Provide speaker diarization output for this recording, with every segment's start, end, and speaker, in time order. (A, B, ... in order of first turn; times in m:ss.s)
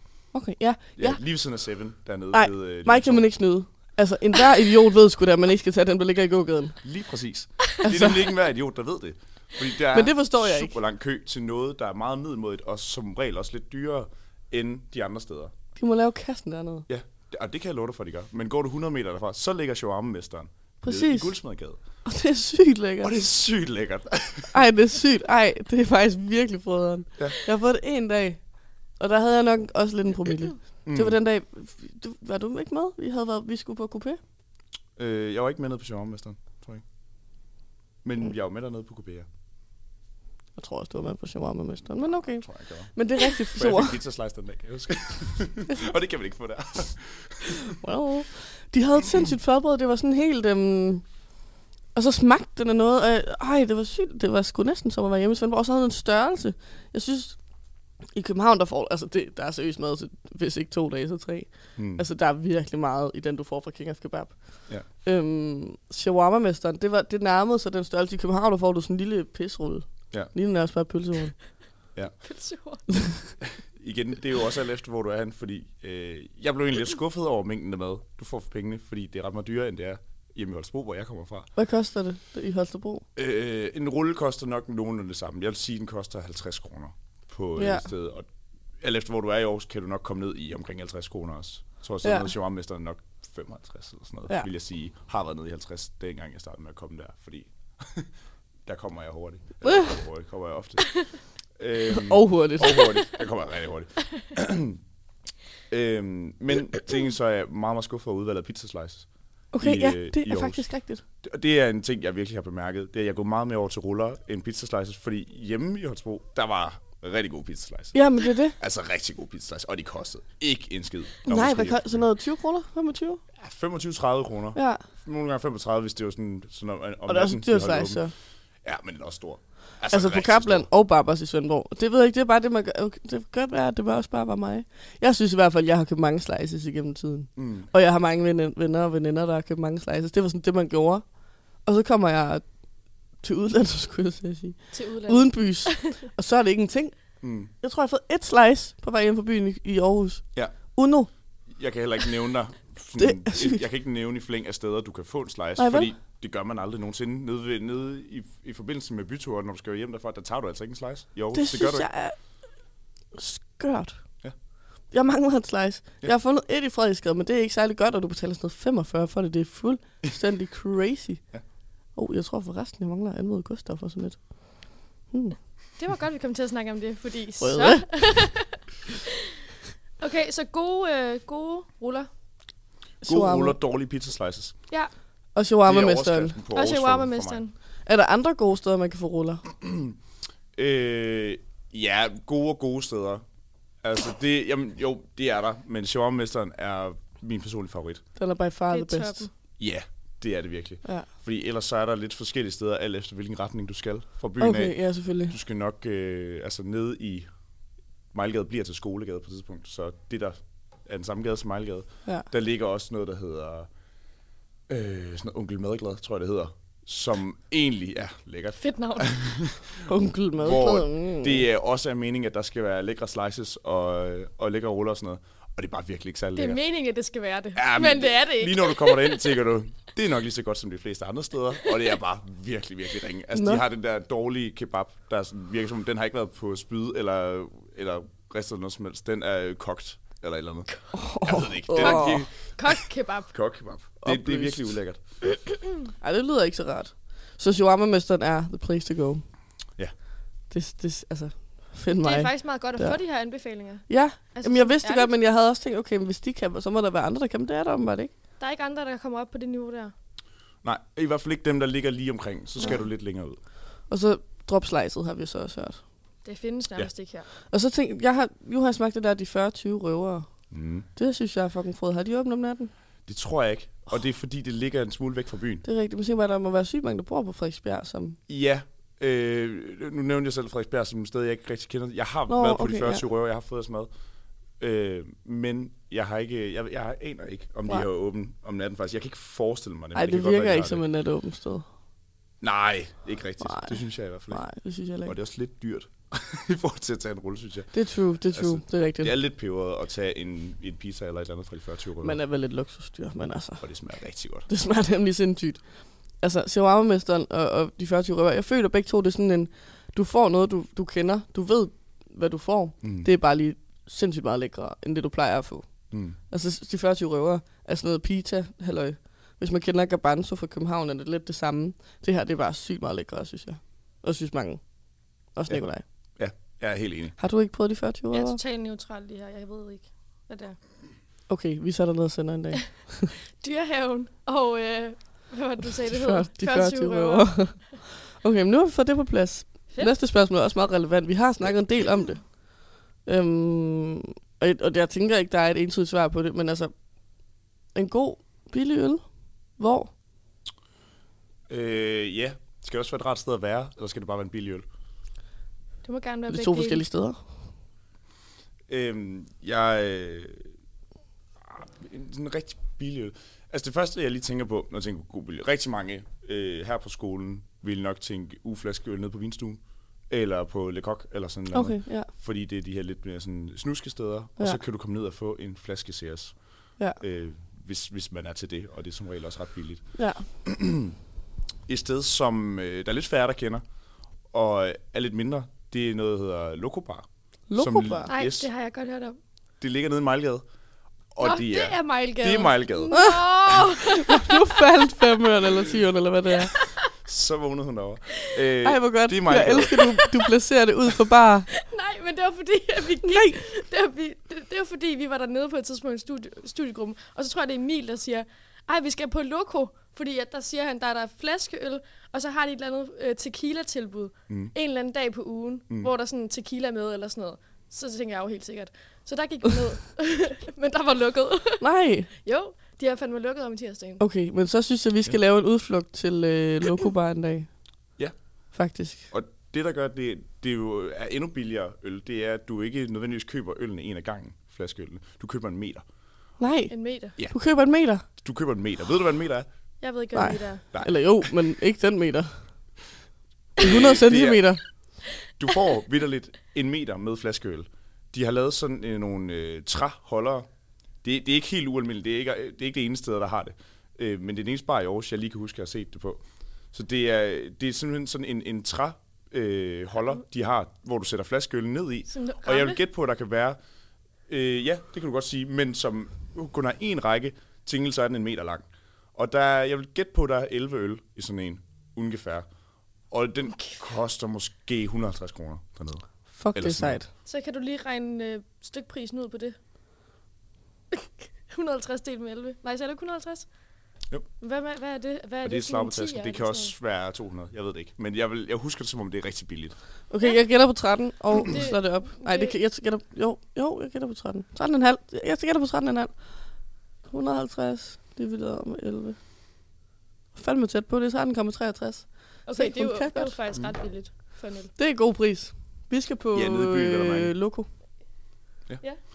0:00.3-0:01.2 A
0:01.0-0:03.3 B
0:02.3-0:06.8 A
0:06.8-0:15.5 B
0:07.8-0:08.2 A
0:09.9-0:10.7 A
0:15.8-0:16.8 A
0:16.9-0:21.8 B
0:20.8-0:21.4 A
0:22.0-0:23.1 A
0:23.0-0:24.6 B
0:24.5-0:34.2 A
0:30.8-0:31.2 B
0:35.0-0:36.8 B
0:38.0-0:39.3 B
0:40.6-0:44.0 A
0:42.2-0:47.5 B
0:47.8-0:51.2 A
0:51.9-0:57.4 A
0:58.0-1:11.4 A
1:01.8-1:02.0 B
1:12.2-1:12.9 C
1:13.6-1:21.5 B
1:21.6-1:23.0 A
1:23.2-1:28.3 B
1:27.6-1:27.9 A
1:28.8-1:38.1 B
1:32.0-1:32.3 A
1:38.6-1:44.8 B
1:39.6-1:39.9 A
1:41.9-1:42.9 A
1:45.7-1:50.7 B
1:49.5-1:51.0 A
1:51.2-2:02.0 B
1:57.9-1:58.6 A
2:01.2-2:03.2 A
2:03.4-2:08.0 B
2:04.5-2:04.8 A
2:07.1-2:08.1 A
2:08.6-2:10.7 B
2:09.9-2:21.1 A
2:17.4-2:17.7 B
2:21.6-2:22.4 A
2:23.2-2:27.0 A
2:24.7-2:25.9 C
2:27.2-2:27.5 B
2:27.6-2:31.1 A
2:31.5-2:41.9 B
2:33.0-2:33.6 A
2:35.6-2:35.9 A
2:41.3-2:42.2 A
2:43.1-2:44.0 A
2:44.9-2:51.2 A
2:51.9-2:55.4 A
2:55.8-2:58.6 C
2:57.4-2:57.9 A
3:00.0-3:02.1 C
3:03.0-3:03.6 A
3:03.0-3:04.6 B
3:05.3-3:06.4 A
3:05.6-3:07.4 B
3:06.5-3:07.5 C
3:07.8-3:09.4 A
3:09.6-3:10.0 B
3:10.5-3:13.2 B
3:13.8-3:18.0 B
3:18.2-3:19.3 A
3:18.7-3:19.3 C
3:19.6-3:27.3 B
3:24.4-3:25.4 A
3:28.1-3:33.7 B
3:34.7-3:39.8 B
3:38.6-3:39.2 C
3:39.9-3:41.4 A
3:40.4-3:46.6 B
3:46.4-3:49.2 C
3:47.6-4:05.0 B
3:53.3-3:53.6 A
4:00.9-4:02.2 A
4:01.8-4:03.3 C
4:04.0-4:04.8 A
4:06.0-4:09.2 A
4:10.5-4:13.0 A
4:11.9-4:15.1 C
4:13.9-4:18.1 A
4:18.4-4:19.9 C
4:20.6-4:23.4 B
4:23.9-4:25.8 A
4:26.2-4:27.3 C
4:27.5-4:30.3 A
4:30.5-4:30.8 B
4:30.9-4:32.7 A
4:33.0-4:35.6 B
4:35.6-4:38.2 A
4:38.3-4:43.9 B
4:42.3-4:43.0 A
4:44.6-4:50.8 B
4:49.9-4:51.6 A
4:52.4-4:54.4 B
4:53.4-4:53.8 A
4:54.3-4:55.1 A
4:55.0-4:57.8 B
4:57.7-4:59.1 A
4:58.3-5:02.2 B
5:02.0-5:03.6 A
5:03.6-5:04.5 B
5:04.4-5:24.6 A
5:12.8-5:13.1 B
5:15.9-5:16.2 B
5:25.3-5:25.8 A
5:26.2-5:27.2 B
5:27.2-5:28.4 A
5:28.1-5:30.6 C
5:31.3-5:33.1 A
5:33.4-5:37.7 C
5:35.9-5:46.7 A
5:47.7-5:49.0 A
5:49.6-5:49.9 A
5:51.5-5:54.6 B
5:55.8-5:56.8 C
5:56.3-5:57.2 A
5:58.7-6:00.5 B
6:01.4-6:16.4 B
6:11.5-6:12.1 A
6:17.0-6:21.0 B
6:19.9-6:20.2 A
6:21.7-6:23.6 B
6:24.3-6:28.5 B
6:27.5-6:28.1 A
6:28.1-6:29.2 C
6:29.6-6:30.4 B
6:31.1-6:33.0 B
6:31.2-6:34.4 C
6:32.9-6:36.5 A
6:37.0-6:39.8 B
6:38.6-6:41.5 A
6:41.6-7:01.6 C
6:43.0-6:43.4 A
7:01.6-7:02.1 A
7:02.2-7:04.0 C
7:04.0-7:07.5 A
7:08.5-7:09.1 A
7:09.1-7:15.8 B
7:16.4-7:18.0 A
7:16.7-7:17.1 C
7:18.2-7:19.5 B
7:19.8-7:20.6 C
7:20.1-7:22.3 A
7:23.6-7:24.6 B
7:23.6-7:24.6 A
7:25.4-7:30.5 B
7:31.0-7:36.2 B
7:36.7-7:43.6 B
7:42.1-7:42.8 C
7:44.3-7:52.4 B
7:53.1-7:57.0 B
7:56.3-7:57.1 A
7:57.2-7:59.6 C
8:00.9-8:03.5 C
8:04.4-8:06.7 C
8:05.4-8:09.8 B
8:10.1-8:16.2 A
8:11.4-8:12.5 C
8:17.0-8:19.2 A
8:20.3-8:23.3 A
8:22.4-8:24.7 C
8:24.8-8:27.7 A
8:26.3-8:27.3 B